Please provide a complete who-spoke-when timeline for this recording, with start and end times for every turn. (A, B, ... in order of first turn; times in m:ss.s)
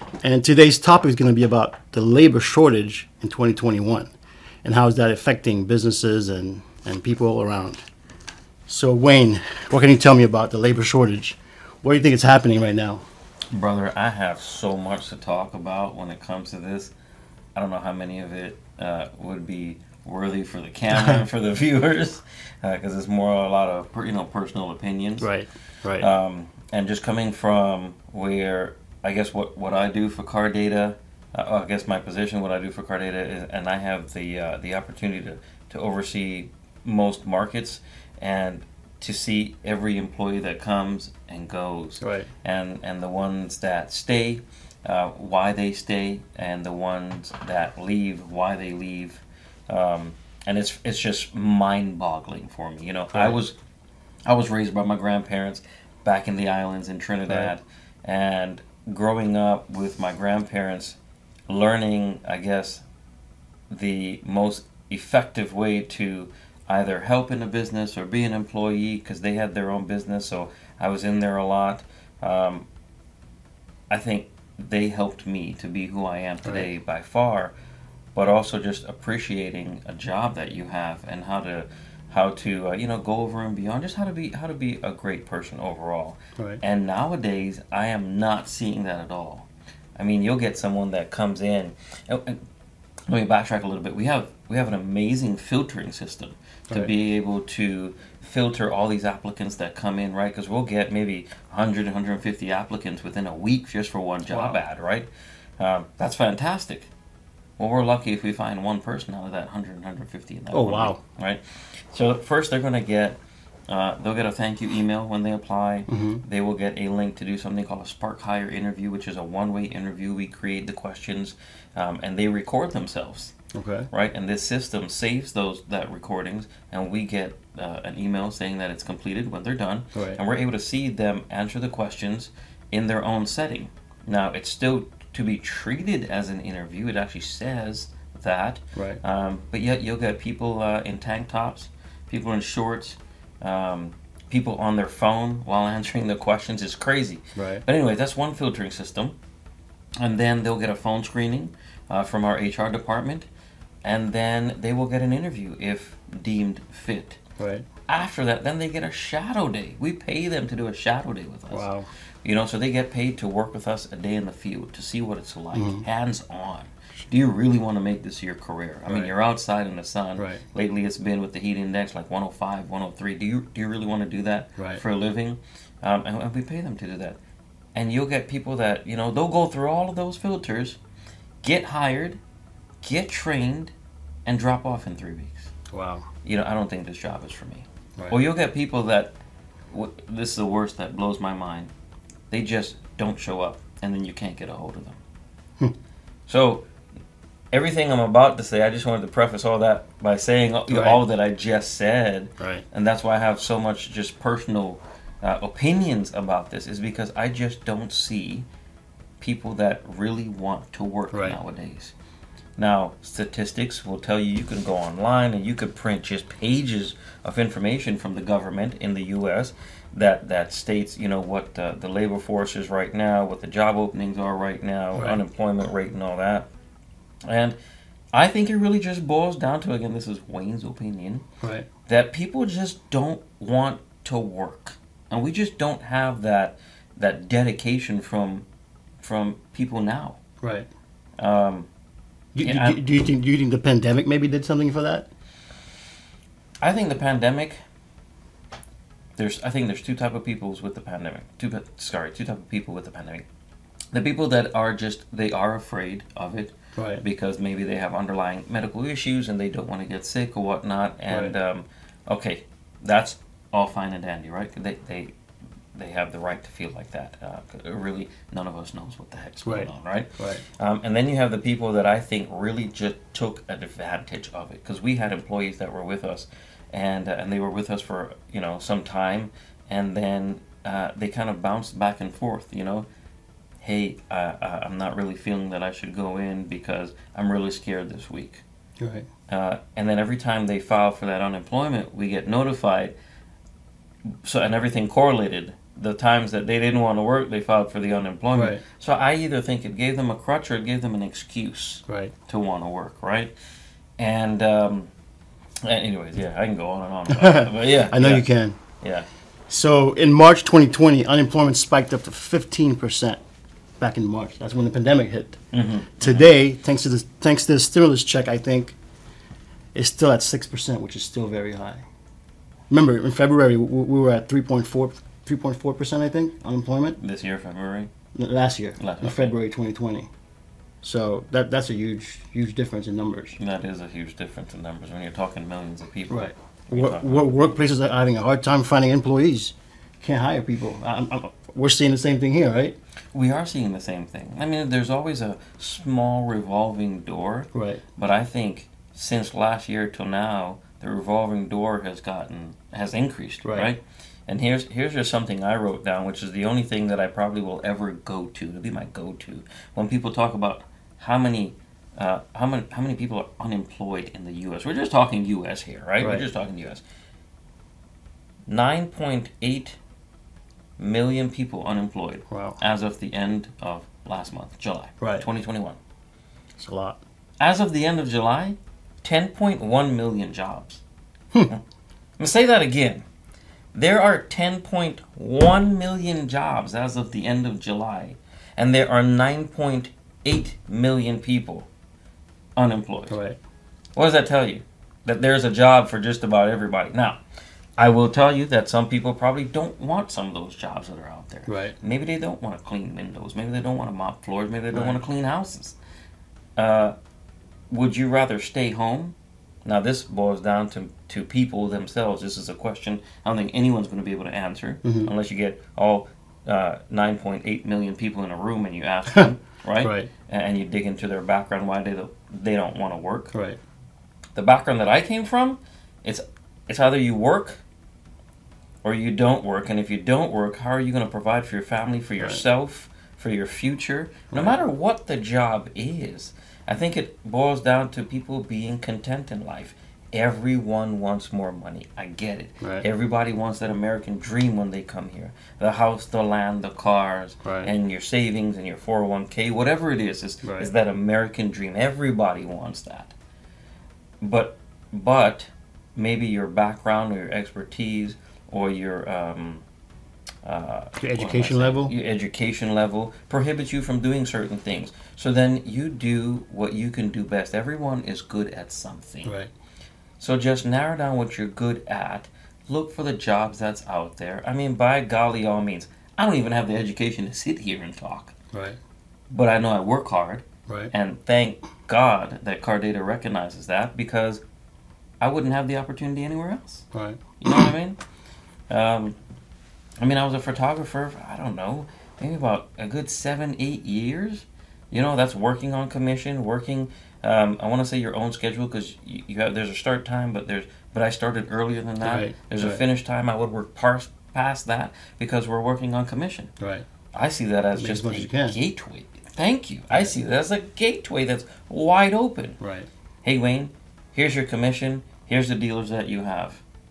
0:00.2-0:04.1 A
0:04.6-0:07.8 A
0:08.7-0:13.0 A
0:13.5-0:16.9 B
0:17.6-0:25.3 B
0:20.9-0:21.2 A
0:25.2-0:26.1 A
0:26.0-0:53.6 B
0:42.0-0:42.3 A
0:53.1-0:53.4 A
0:54.3-1:02.8 B
1:03.7-1:12.7 B
1:13.9-1:17.5 B
1:16.4-1:16.7 A
1:18.2-1:32.4 B
1:26.4-1:26.6 A
1:33.1-1:46.9 B
1:44.3-1:44.6 A
1:47.6-2:03.3 B
1:50.5-1:51.0 A
1:55.9-1:56.2 A
2:03.5-2:03.9 A
2:03.9-2:29.2 B
2:10.0-2:10.2 A
2:18.8-2:19.0 A
2:27.4-2:27.6 A
2:30.0-2:33.3 B
2:33.8-2:37.2 B
2:37.4-2:37.7 A
2:37.9-2:41.7 B
2:41.5-2:41.9 A
2:42.2-2:57.2 B
2:45.5-2:45.8 A
2:50.2-2:50.4 A
2:54.6-2:54.8 A
2:57.8-3:00.8 B
3:01.4-3:02.2 B
3:02.8-3:03.7 B
3:04.3-3:05.5 B
3:05.7-3:06.1 A
3:06.2-3:09.1 B
3:09.7-3:11.7 B
3:12.3-3:15.0 B
3:16.3-3:16.7 B
3:17.5-3:28.5 B
3:20.7-3:21.0 A
3:22.4-3:22.6 A
3:29.2-3:31.9 B
3:31.1-3:31.4 A
3:32.6-3:46.5 B
3:44.9-3:45.2 A
3:47.3-3:47.6 B
3:48.1-3:51.2 B
3:51.4-3:51.7 A
3:51.9-3:58.5 B
3:59.0-4:00.2 B
4:00.4-4:00.7 A
4:01.2-4:01.7 B
4:02.4-4:05.1 A
4:02.4-4:02.8 B
4:06.6-4:07.6 B
4:09.2-4:13.2 B
4:13.9-4:25.1 B
4:16.8-4:17.0 A
4:21.1-4:21.4 A
4:25.8-4:42.9 B
4:29.4-4:30.4 A
4:43.6-4:48.4 B
4:48.8-4:49.1 A
4:49.3-4:53.0 B
4:54.2-5:03.3 B
4:58.3-4:58.6 A
5:01.9-5:02.1 A
5:04.0-5:04.9 B
5:05.6-5:08.3 B
5:07.1-5:08.6 A
5:08.8-5:09.1 B
5:09.5-5:13.2 A
5:13.8-5:15.4 A
5:15.5-5:16.3 B
5:16.0-5:18.8 A
5:19.8-5:21.8 A
5:22.7-5:27.0 A
5:27.0-5:27.9 B
5:28.2-5:30.1 A
5:28.8-5:29.3 B
5:30.8-5:33.4 A
5:33.4-5:37.5 B
5:36.1-5:42.8 A
5:43.1-6:06.8 B
5:47.5-5:47.8 A
5:53.4-5:53.7 A
6:06.0-6:06.2 A
6:08.5-6:09.8 B
6:10.8-6:15.8 B
6:12.3-6:12.6 A
6:15.0-6:15.3 A
6:16.6-6:17.0 A
6:17.4-6:20.8 B
6:22.2-6:23.0 B
6:23.7-6:31.7 B
6:32.6-6:33.2 B
6:33.1-6:33.4 A
6:34.0-6:37.2 B
6:37.8-6:45.8 B
6:41.5-6:41.8 A
6:44.7-6:45.0 A
6:46.6-6:47.0 B
6:47.7-7:03.3 B
6:54.8-6:55.1 A
6:59.8-7:00.1 A
7:03.3-7:03.6 A
7:04.4-7:07.6 B
7:08.8-7:33.2 B
7:14.3-7:14.6 A
7:27.4-7:27.7 A
7:30.4-7:30.7 A
7:34.2-7:39.6 B
7:40.4-7:49.3 B
7:41.0-7:41.9 A
7:49.2-7:49.5 A
7:50.2-7:58.3 B
7:58.5-7:58.8 A
7:59.3-8:04.4 B
8:05.2-8:06.9 B
8:06.9-8:07.7 A
8:07.4-8:08.0 B
8:08.7-8:09.2 B
8:10.0-8:26.5 B
8:22.0-8:22.8 A
8:26.6-8:26.9 A
8:27.1-8:32.6 B
8:27.8-8:28.6 A
8:32.6-8:32.9 A
8:33.2-8:36.6 B